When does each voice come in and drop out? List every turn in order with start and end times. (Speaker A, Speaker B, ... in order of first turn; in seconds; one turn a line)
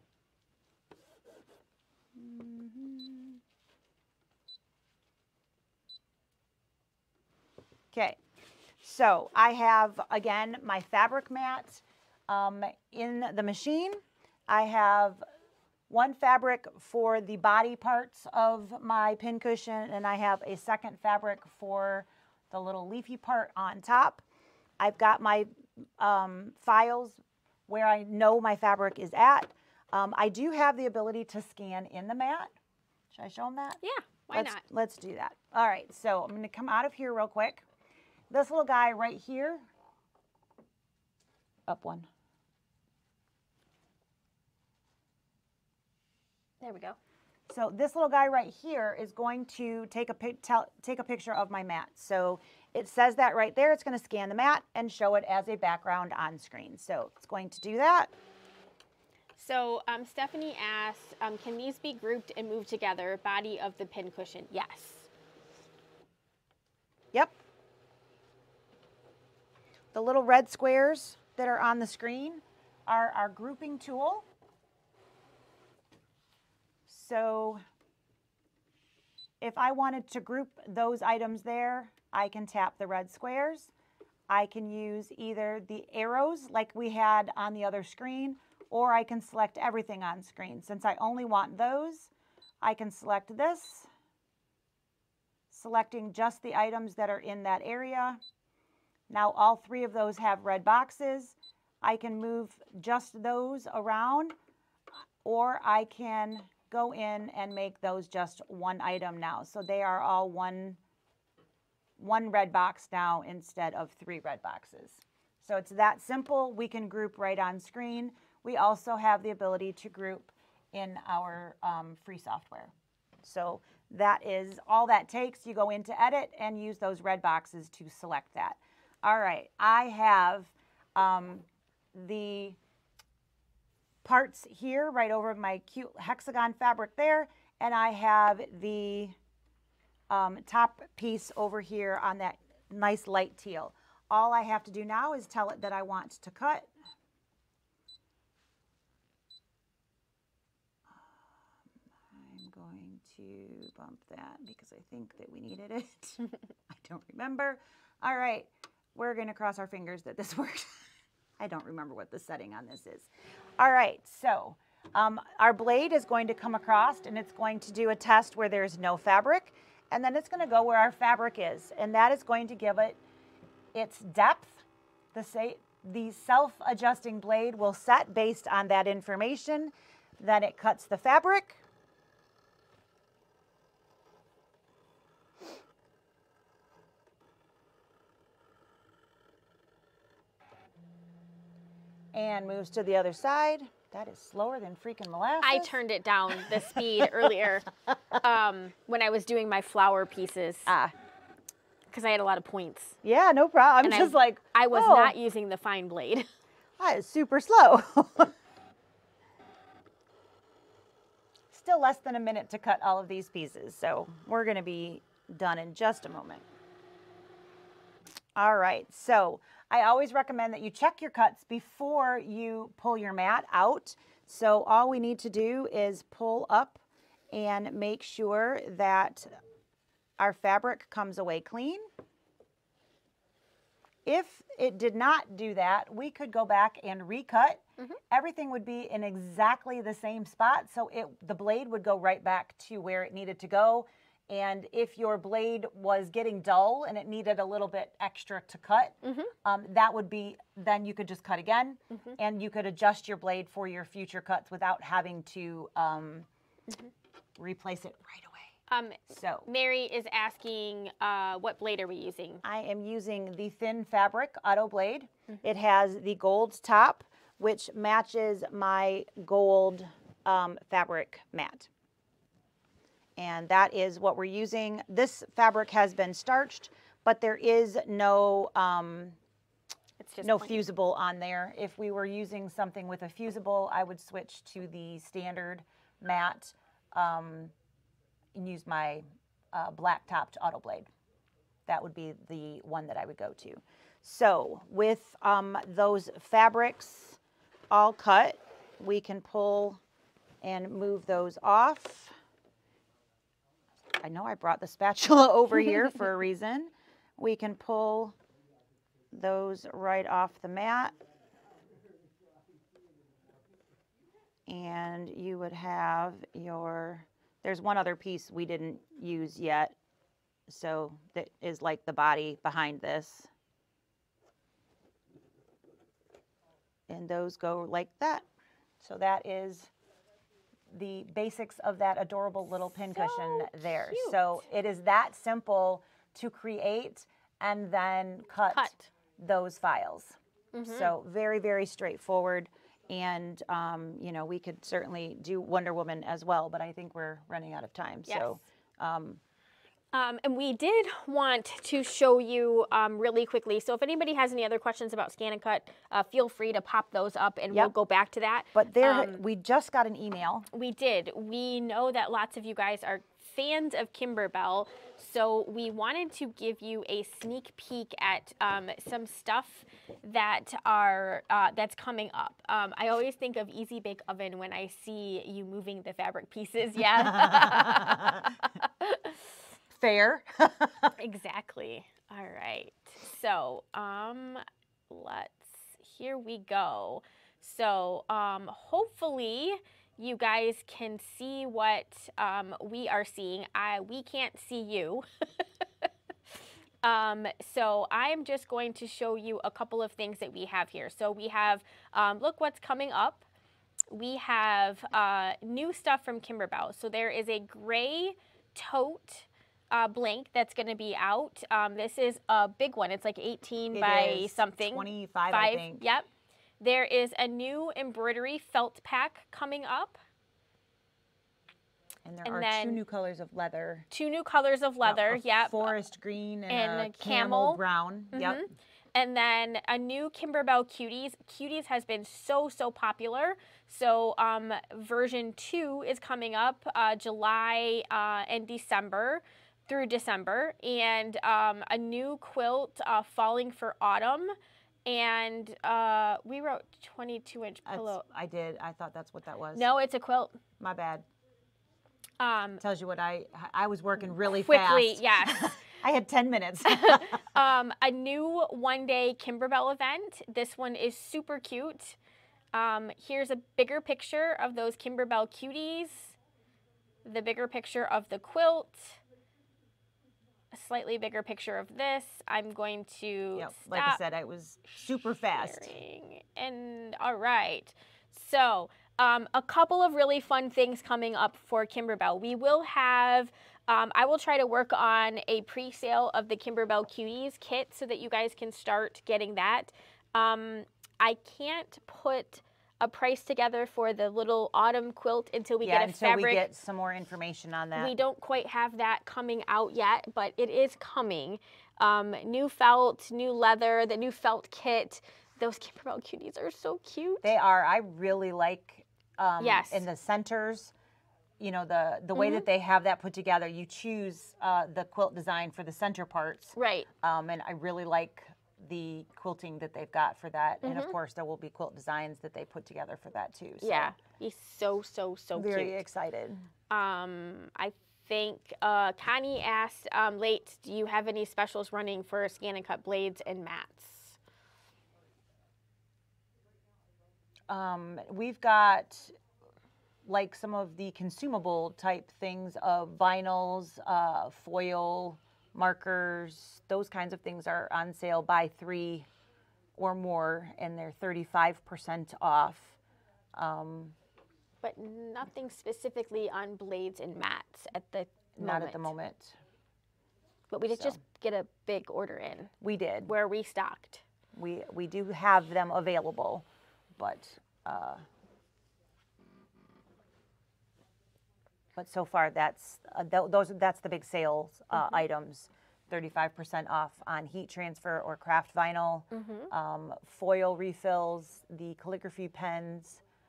Speaker A: 2.1-3.4
Speaker A: 7.9-8.2
Speaker A: 8.8-15.2
Speaker A: 15.9-24.2
Speaker A: 24.8-32.5
Speaker A: 33.1-33.8
Speaker B: 33.8-34.6
Speaker A: 34.3-37.6
Speaker A: 38.3-39.6
Speaker A: 41.7-42.1
Speaker B: 46.6-47.0
Speaker A: 47.5-58.1
Speaker B: 59.4-65.1
Speaker A: 69.9-74.3
Speaker A: 76.9-77.6
Speaker A: 79.4-83.7
Speaker A: 84.3-92.1
Speaker A: 92.6-93.9
Speaker A: 95.5-98.2
Speaker A: 99.1-104.3
Speaker A: 105.2-110.8
Speaker A: 112.0-132.6
Speaker A: 134.0-139.2
Speaker A: 140.1-146.7
Speaker A: 150.9-151.3
Speaker A: 152.1-160.8
Speaker A: 161.4-173.0
Speaker A: 173.7-181.6
Speaker A: 192.1-195.8
Speaker B: 195.4-197.7
Speaker A: 196.3-197.4
Speaker B: 198.2-200.7
Speaker A: 200.7-200.9
Speaker B: 201.9-203.0
Speaker A: 203.0-205.1
Speaker B: 203.8-206.3
Speaker A: 206.8-208.3
Speaker A: 211.5-216.4
Speaker A: 218.4-226.8
Speaker A: 227.3-229.4
Speaker A: 230.2-231.9
Speaker A: 234.1-256.3
Speaker B: 249.0-249.3
Speaker B: 251.9-252.2
Speaker A: 257.4-258.5
Speaker B: 258.7-262.4
Speaker A: 259.1-259.5
Speaker A: 262.4-271.7
Speaker A: 273.2-279.2
Speaker B: 280.0-280.6
Speaker A: 280.2-287.5
Speaker A: 288.4-290.9
Speaker A: 291.7-297.2
Speaker A: 297.7-299.8
Speaker A: 300.4-302.1
Speaker A: 304.0-308.2
Speaker A: 309.1-310.9
Speaker A: 314.5-319.8
Speaker A: 320.5-323.3
Speaker A: 326.9-328.3
Speaker A: 328.8-329.7
Speaker A: 330.7-349.2
Speaker B: 332.9-334.2
Speaker B: 338.5-338.9
Speaker B: 340.5-340.9
Speaker B: 348.1-348.4
Speaker B: 349.9-359.2
Speaker A: 358.5-360.5
Speaker B: 360.5-379.3
Speaker A: 377.0-378.3
Speaker A: 379.7-380.9
Speaker B: 381.0-395.9
Speaker B: 396.8-403.3
Speaker B: 403.9-416.1
Speaker A: 413.7-415.9
Speaker B: 416.6-420.0
Speaker A: 422.1-423.9
Speaker B: 422.2-422.8
Speaker B: 423.9-425.8
Speaker A: 424.8-428.4
Speaker B: 426.5-427.6
Speaker B: 428.1-444.3
Speaker B: 444.9-448.0
Speaker A: 447.7-449.7
Speaker B: 449.6-450.4
Speaker A: 450.6-451.1
Speaker B: 452.2-452.6
Speaker A: 452.6-457.4
Speaker B: 454.2-455.6
Speaker B: 456.6-462.0
Speaker B: 462.5-466.2
Speaker B: 467.0-469.0
Speaker B: 470.5-474.0
Speaker A: 473.4-475.8
Speaker B: 475.2-496.5
Speaker A: 495.6-498.0
Speaker B: 497.8-507.3
Speaker A: 507.2-510.7
Speaker B: 509.4-509.8
Speaker A: 511.4-524.0
Speaker B: 512.1-512.5
Speaker B: 516.5-516.9
Speaker B: 520.6-521.0
Speaker B: 523.6-525.8
Speaker A: 525.4-526.5
Speaker B: 526.7-534.2
Speaker A: 537.5-539.1
Speaker A: 540.0-549.1
Speaker A: 549.8-552.8
Speaker A: 553.3-554.0
Speaker B: 554.6-558.9
Speaker A: 558.4-559.4
Speaker B: 560.5-562.5
Speaker A: 562.6-563.1
Speaker B: 563.0-564.0
Speaker A: 564.3-568.0
Speaker A: 571.8-583.0
Speaker B: 579.1-579.5